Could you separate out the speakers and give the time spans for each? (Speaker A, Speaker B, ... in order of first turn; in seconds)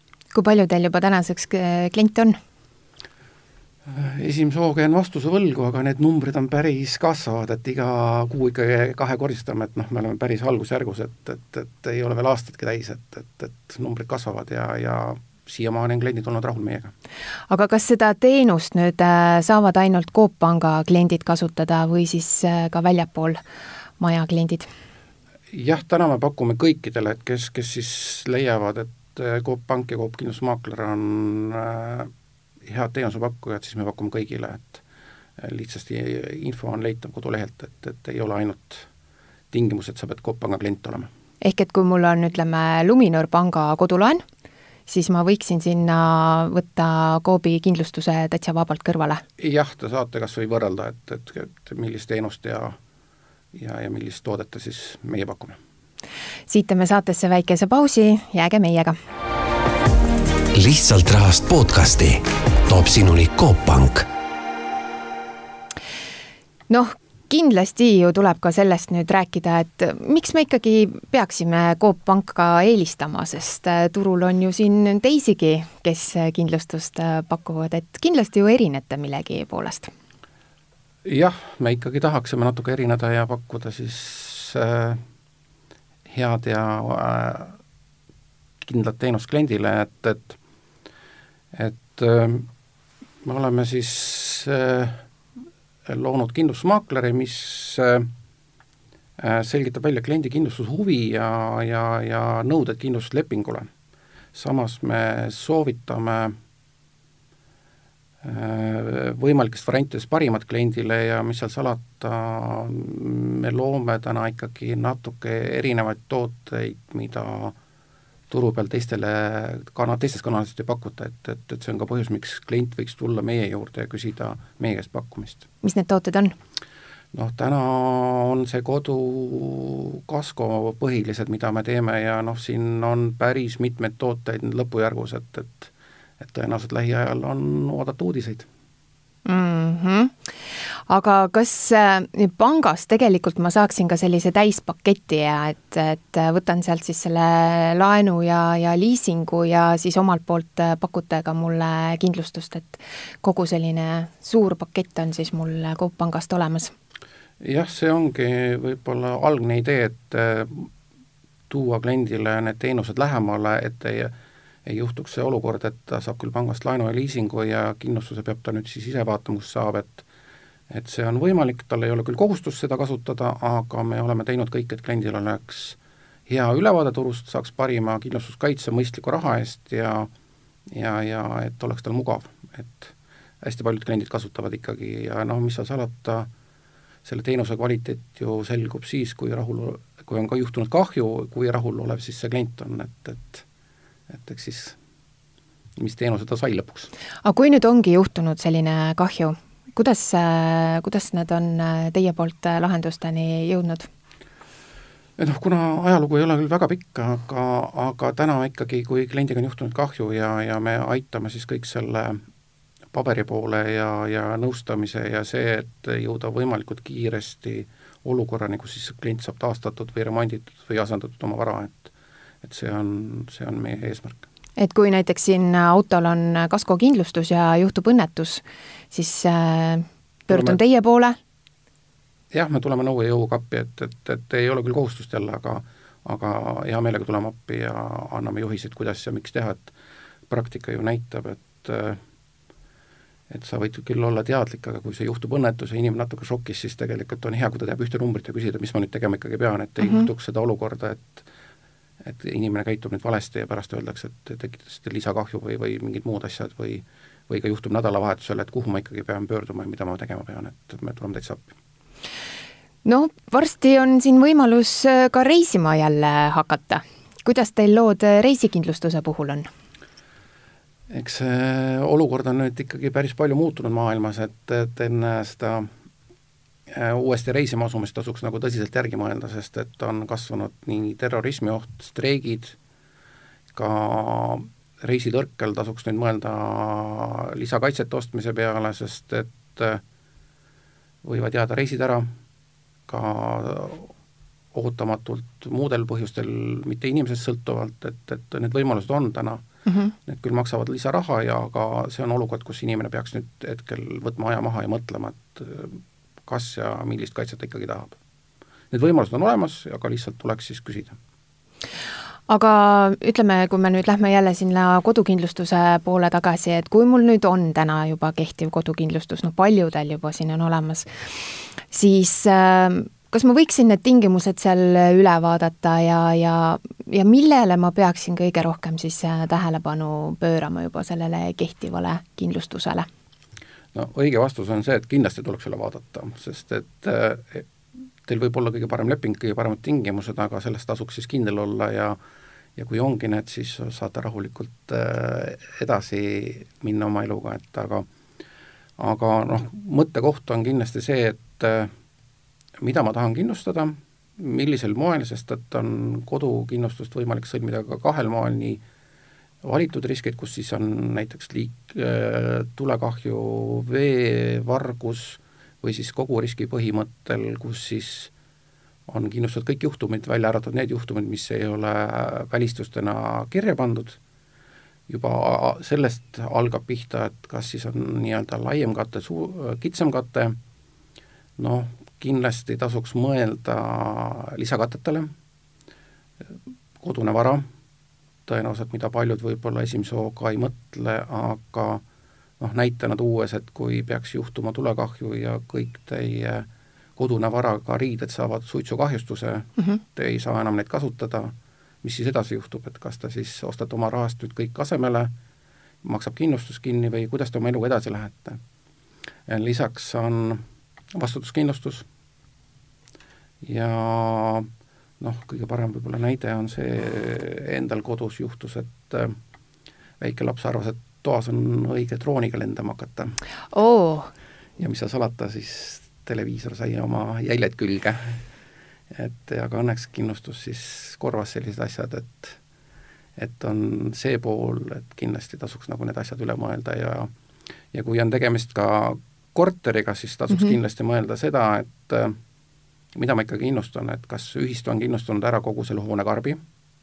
Speaker A: 0.3-2.4, 17.5-23.4, 24.0-24.7, 41.4-44.2, 44.9-49.2, 56.5-59.0, 66.7-79.9, 125.6-126.3, 139.2-140.2, 140.9-156.7, 197.2-203.9, 224.6-231.2, 249.8-250.1, 262.8-269.5, 299.7-299.9, 312.3-320.9, 321.7-332.9, 423.5-424.1
Speaker B: 3.9-16.9, 25.5-32.1, 32.7-34.8, 35.4-38.9, 39.5-41.1, 49.4-52.8, 53.5-55.6, 81.0-85.0, 86.1-87.5, 88.6-90.4, 91.5-92.5, 93.2-95.0, 95.8-98.1, 99.2-103.7, 104.3-106.3, 108.2-117.5, 118.3-125.4, 127.1-138.5, 157.4-160.7, 161.5-164.1, 164.6-170.1, 170.7-180.1, 180.7-186.3, 187.0-193.4, 194.1-194.8, 195.8-196.9, 205.2-212.2, 212.9-221.9, 222.4-224.2, 230.3-230.6, 232.3-239.7, 240.3-242.0, 243.3-251.3, 252.0-261.5, 270.9-275.7, 276.7-282.6, 283.5-289.8, 291.0-292.1, 292.9-293.9, 294.5-299.4, 300.1-308.0, 308.7-311.0, 333.7-337.5, 338.0-342.0, 342.6-347.9, 348.8-351.7, 352.6-358.6, 359.4-368.1, 368.9-374.0, 374.9-380.4, 381.4-385.1, 386.8-387.4, 388.2-391.8, 392.4-396.4, 397.0-405.1, 405.8-408.4, 409.3-410.4, 410.9-411.9, 413.4-414.5, 415.0-419.1, 420.0-423.1, 424.6-428.2, 428.9-432.4, 433.2-437.1, 437.7-442.1, 442.9-446.4
Speaker C: 60.5-64.1